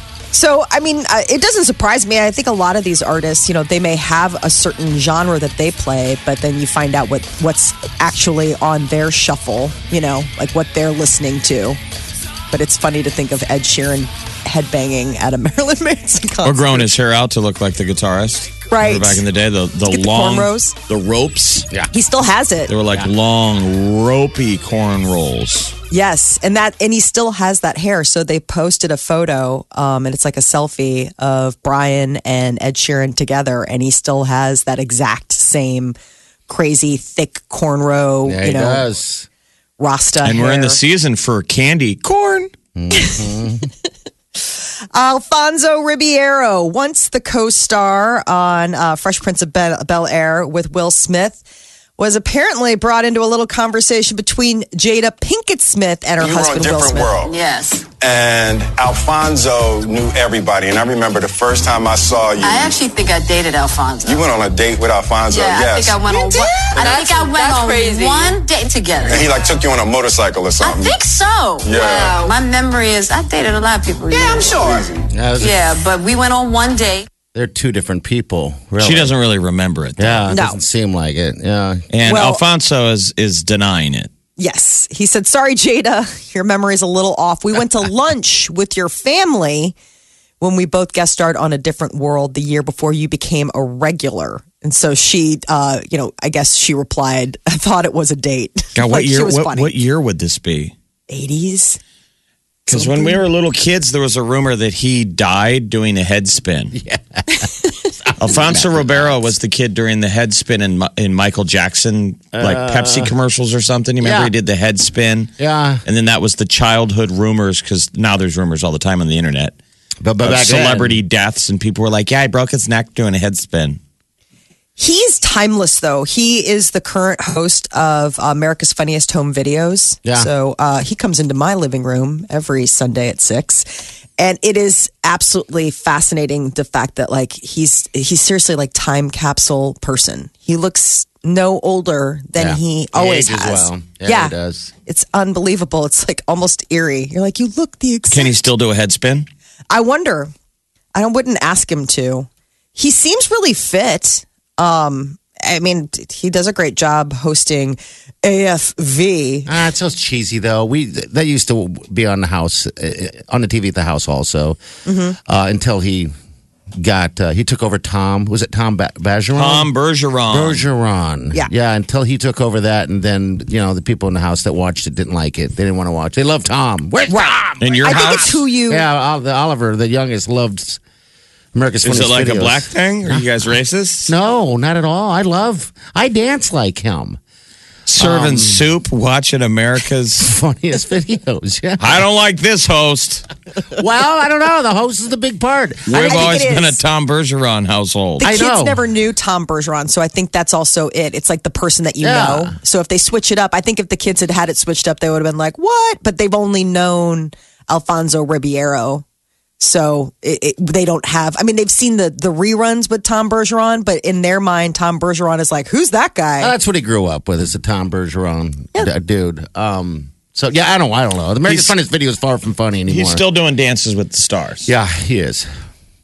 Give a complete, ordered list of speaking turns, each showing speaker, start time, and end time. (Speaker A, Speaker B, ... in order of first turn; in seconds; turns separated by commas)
Speaker A: 0.3-11.8, Speaker A: 12.5-16.9, Speaker B: 16.4-21.7, Speaker A: 18.7-19.2, Speaker A: 19.9-20.8, Speaker A: 21.9-22.7, Speaker B: 22.7-25.7, Speaker A: 25.9-36.0, Speaker A: 36.5-38.9, Speaker C: 38.2-39.3, Speaker A: 39.8-40.8, Speaker B: 40.2-42.5, Speaker C: 42.8-43.7, Speaker A: 42.9-43.2, Speaker A: 44.4-51.4, Speaker A: 52.0-57.1, Speaker D: 56.2-57.4, Speaker E: 57.2-57.9, Speaker D: 58.0-62.8, Speaker E: 62.4-64.3, Speaker D: 64.0-68.3, Speaker E: 65.3-69.6, Speaker D: 69.0-71.0, Speaker E: 70.6-77.1, Speaker D: 71.6-72.3, Speaker D: 74.1-75.1, Speaker C: 75.1-75.6, Speaker C: 77.3-79.1, Speaker B: 78.8-80.2, Speaker C: 80.0-81.9, Speaker A: 80.3-80.6, Speaker B: 81.9-84.1, Speaker A: 82.1-82.4, Speaker A: 84.4-89.8, Speaker A: 90.4-99.7, Speaker B: 98.8-100.7, Speaker A: 101.1-101.8, Speaker A: 102.7-103.2, Speaker B: 102.7-106.8, Speaker C: 106.7-109.3, Speaker B: 108.2-115.3, Speaker C: 112.3-113.1, Speaker C: 114.0-114.3, Speaker C: 115.4-115.8, Speaker B: 115.8-119.5, Speaker C: 120.0-121.0, Speaker B: 120.2-123.8, Speaker A: 124.8-144.3, Speaker C: 142.4-144.7, Speaker A: 144.9-148.3, Speaker B: 148.1-149.3, Speaker A: 149.7-150.3, Speaker A: 150.9-159.5, Speaker C: 159.5-164.6, Speaker A: 164.9-165.2, Speaker C: 165.2-166.1, Speaker C: 166.8-169.7, Speaker B: 169.3-170.6, Speaker C: 170.3-180.8, Speaker A: 177.1-178.9, Speaker B: 177.6-178.4, Speaker C: 181.5-183.2, Speaker B: 181.8-184.1, Speaker C: 184.1-187.2, Speaker B: 187.9-190.3, Speaker C: 188.0-188.7, Speaker C: 190.2-192.0, Speaker B: 191.8-193.3, Speaker C: 193.7-195.9, Speaker B: 195.9-198.3, Speaker A: 195.9-196.8, Speaker C: 198.2-198.8, Speaker A: 198.2-209.0, Speaker C: 202.0-202.6, Speaker A: 209.6-216.6, Speaker C: 216.4-223.2, Speaker B: 221.5-221.8, Speaker B: 222.9-224.7, Speaker C: 224.7-225.5